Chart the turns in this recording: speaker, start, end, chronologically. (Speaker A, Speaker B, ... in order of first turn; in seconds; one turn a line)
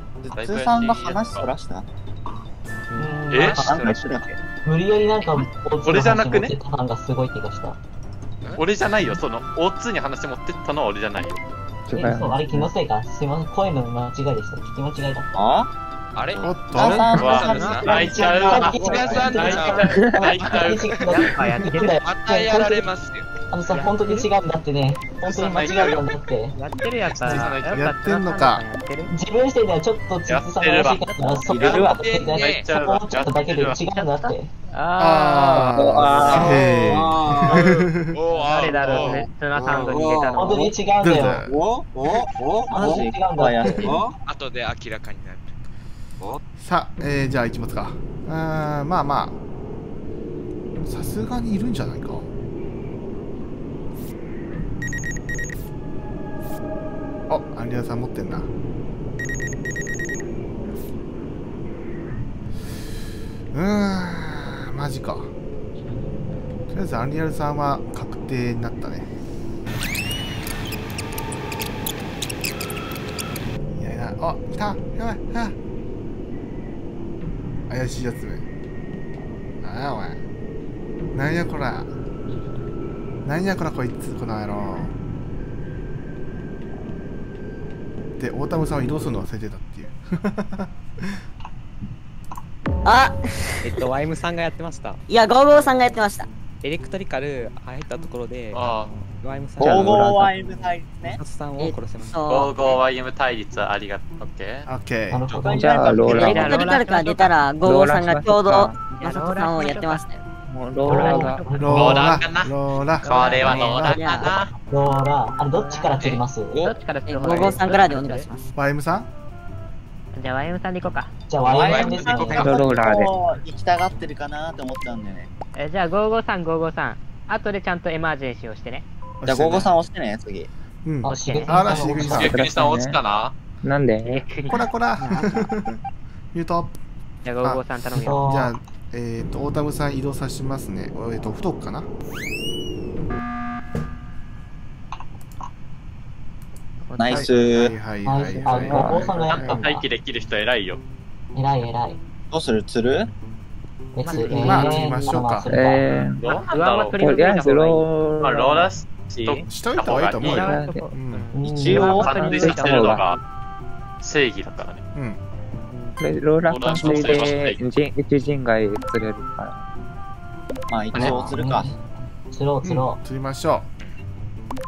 Speaker A: 0.2-1.9
Speaker B: 0.3-1.5
Speaker C: 3.0-3.8
Speaker B: 3.3-3.7
Speaker D: 3.3-4.4
Speaker A: 3.5-4.2
Speaker C: 4.6-7.8
Speaker B: 5.8-6.5
Speaker B: 8.6-11.4
Speaker E: 11.9-12.7
Speaker C: 11.9-15.3
Speaker A: 15.3-15.7
Speaker D: 16.1-20.1
Speaker A: 16.3-19.7
Speaker F: 16.4-17.1
Speaker B: 17.1-21.0
Speaker C: 17.9-22.9
Speaker G: 21.1-22.0
Speaker D: 22.0-23.3
Speaker C: 23.5-26.6
Speaker G: 23.7-24.3
Speaker B: 25.2-26.1
Speaker G: 26.5-29.1
Speaker H: 27.2-27.8
Speaker F: 27.7-28.6
Speaker C: 29.1-34.5
Speaker B: 30.3-33.8
Speaker G: 31.0-31.5
Speaker D: 31.8-32.7
Speaker G: 33.9-36.4
Speaker F: 35.0-38.2
Speaker H: 35.8-37.7
Speaker D: 36.0-36.6
Speaker A: 36.3-36.5
Speaker D: 38.1-39.2
Speaker B: 38.2-38.8
Speaker G: 38.3-40.7
Speaker H: 38.8-43.1
Speaker C: 40.4-41.4
Speaker F: 41.0-41.6
Speaker C: 42.7-43.9
Speaker A: 42.7-44.0
Speaker H: 43.7-44.1
Speaker D: 44.2-45.5
Speaker F: 46.6-49.4
Speaker F: 50.8-52.3
Speaker F: 57.3-58.5
Speaker F: 63.5-65.3
Speaker F: 66.7-69.1
Speaker F: 73.8-75.5
Speaker F: 77.7-78.4
Speaker F: 79.6-80.2
Speaker F: 81.1-81.9
Speaker F: 83.2-85.0
Speaker F: 88.2-91.2
Speaker I: 92.8-93.8
Speaker J: 93.6-96.0
Speaker I: 95.1-96.3
Speaker J: 96.6-102.8
Speaker B: 98.5-98.9
Speaker E: 99.6-100.3
Speaker A: 99.6-101.2
Speaker I: 101.6-102.6
Speaker B: 102.3-104.7
Speaker F: 104.7-105.3
Speaker C: 105.1-106.4
Speaker B: 105.3-105.5
Speaker E: 105.5-106.6
Speaker A: 105.5-106.7
Speaker I: 106.0-110.2
Speaker G: 106.0-107.3
Speaker E: 107.6-108.8
Speaker G: 108.9-110.0
Speaker E: 110.5-111.5
Speaker G: 110.8-112.1
Speaker C: 110.8-112.2
Speaker F: 111.6-114.1
Speaker B: 111.7-114.5
Speaker G: 113.0-113.8
Speaker I: 113.5-114.3
Speaker C: 114.7-116.7
Speaker G: 115.5-118.3
Speaker I: 117.1-118.5
Speaker F: 118.5-119.1
Speaker G: 120.1-121.1
Speaker C: 121.3-122.8
Speaker D: 121.5-122.3
Speaker B: 121.5-122.5
Speaker A: 122.1-125.3
Speaker E: 122.3-123.1
Speaker G: 125.6-128.8
Speaker F: 129.2-129.7
Speaker A: 129.2-130.5
Speaker F: 130.8-132.4
Speaker C: 131.0-132.3
Speaker G: 131.2-132.2
Speaker B: 132.0-133.3
Speaker E: 132.1-133.0
Speaker E: 133.6-134.3
Speaker G: 134.0-134.6
Speaker F: 134.5-135.8
Speaker F: 136.3-136.8
Speaker G: 137.2-138.4
Speaker C: 138.0-138.5
Speaker F: 138.2-141.9
Speaker F: 147.0-149.5
Speaker A: 147.0-147.8
Speaker C: 148.0-149.9
Speaker E: 148.4-149.1
Speaker B: 149.2-150.8
Speaker C: 151.3-152.0
Speaker A: 152.3-153.1
Speaker C: 153.9-156.0
Speaker G: 154.0-155.2
Speaker F: 154.3-155.5
Speaker E: 155.5-156.2
Speaker B: 156.1-157.0
Speaker G: 156.5-157.8
Speaker E: 157.0-158.7
Speaker B: 158.2-160.4
Speaker F: 159.5-161.3
Speaker G: 160.2-163.1
Speaker E: 160.2-160.9
Speaker C: 161.3-162.5
Speaker B: 161.6-163.2
Speaker E: 162.2-163.1
Speaker B: 164.0-164.8
Speaker F: 164.9-165.2
Speaker G: 165.7-165.9
Speaker E: 166.0-169.6
Speaker B: 166.5-167.6
Speaker A: 170.7-171.7
Speaker C: 170.9-173.0
Speaker F: 172.6-173.7